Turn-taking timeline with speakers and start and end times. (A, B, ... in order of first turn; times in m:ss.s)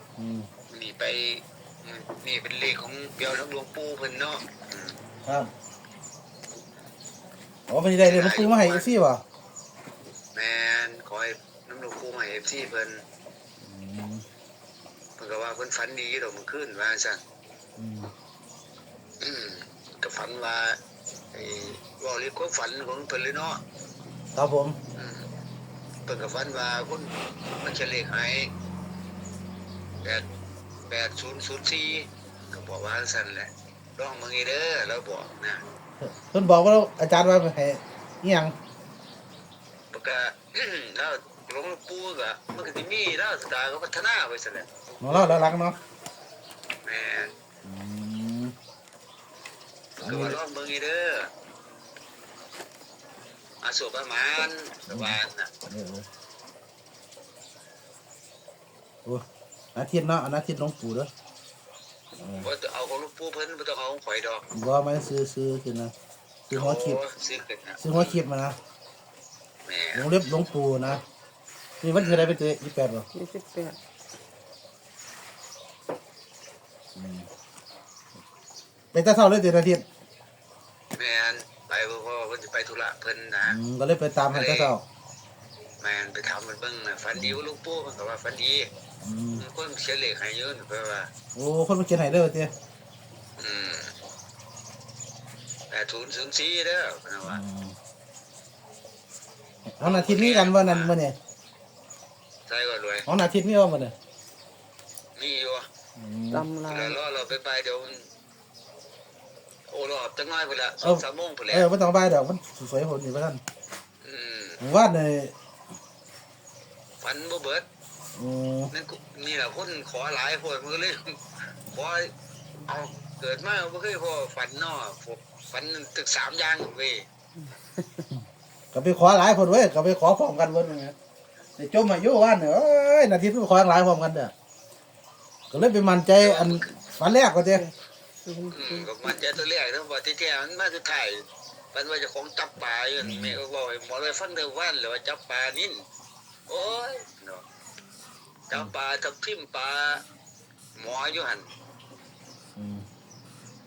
0:00.2-0:00.5 A
0:00.7-0:05.0 B
0:07.7-0:09.2 A
0:08.0-0:08.9 B
0:10.3-0:13.0 B
0:13.6-0:14.2 A
0:15.2-0:17.2 B
0:17.8-0:18.1 A
0:19.2-0:20.8 B
0:21.3-0:23.6 B
0:24.3-0:24.8 A
0:25.0-0:25.3 B
0:26.0-0:28.5 B
0:30.9-0:35.6 B
0:36.0-0:38.5 A
0:39.9-0:44.7 B
0:45.0-0:45.8 A
0:46.8-0:47.3 B
0:47.6-0:48.5 A
0:50.0-0:51.3 B
0:50.0-0:50.4 A
0:53.6-0:55.5 B
0:54.9-0:56.0 A
0:59.7-1:01.1 A
1:02.2-1:02.5 A
1:02.4-1:04.4 B
1:04.5-1:05.9 A
1:06.5-1:07.0 A
1:06.5-1:08.2 B
1:07.8-1:08.6 A
1:09.6-1:10.1 B
1:09.9-1:11.0 A
1:11.8-1:13.1 A
1:11.9-1:12.4 B
1:13.1-1:13.8 C
1:16.9-1:17.3 A
1:18.9-1:19.8 A
1:20.9-1:23.6 B
1:23.4-1:24.8 A
1:24.3-1:24.7 B
1:25.8-1:28.7 B
1:29.0-1:29.4 A
1:29.4-1:31.1 B
1:31.3-1:32.5 A
1:33.4-1:33.9 B
1:35.7-1:37.4 B
1:37.2-1:37.7 A
1:39.7-1:41.1 A
1:39.8-1:41.0 B
1:42.5-1:43.1 B
1:43.0-1:43.9 A
1:45.2-1:45.7 B
1:46.0-1:46.5 A
1:46.3-1:47.0 C
1:46.6-1:48.1 B
1:49.7-1:51.7 B
1:50.8-1:53.4 A
1:54.0-1:54.6 B
1:54.6-1:55.3 A
1:57.0-1:57.6 B
1:58.2-1:58.7 A
1:58.7-2:02.1 B
2:02.6-2:07.0 B
2:07.8-2:08.1 C
2:08.7-2:10.9 A
2:11.6-2:14.3 A
2:15.5-2:17.6 A
2:16.2-2:16.6 B
2:18.2-2:18.9 C
2:18.5-2:25.8 B
2:23.0-2:23.4 A
2:26.5-2:27.4 B
2:28.5-2:30.0 B
2:30.8-2:31.5 B
2:32.6-2:32.8 A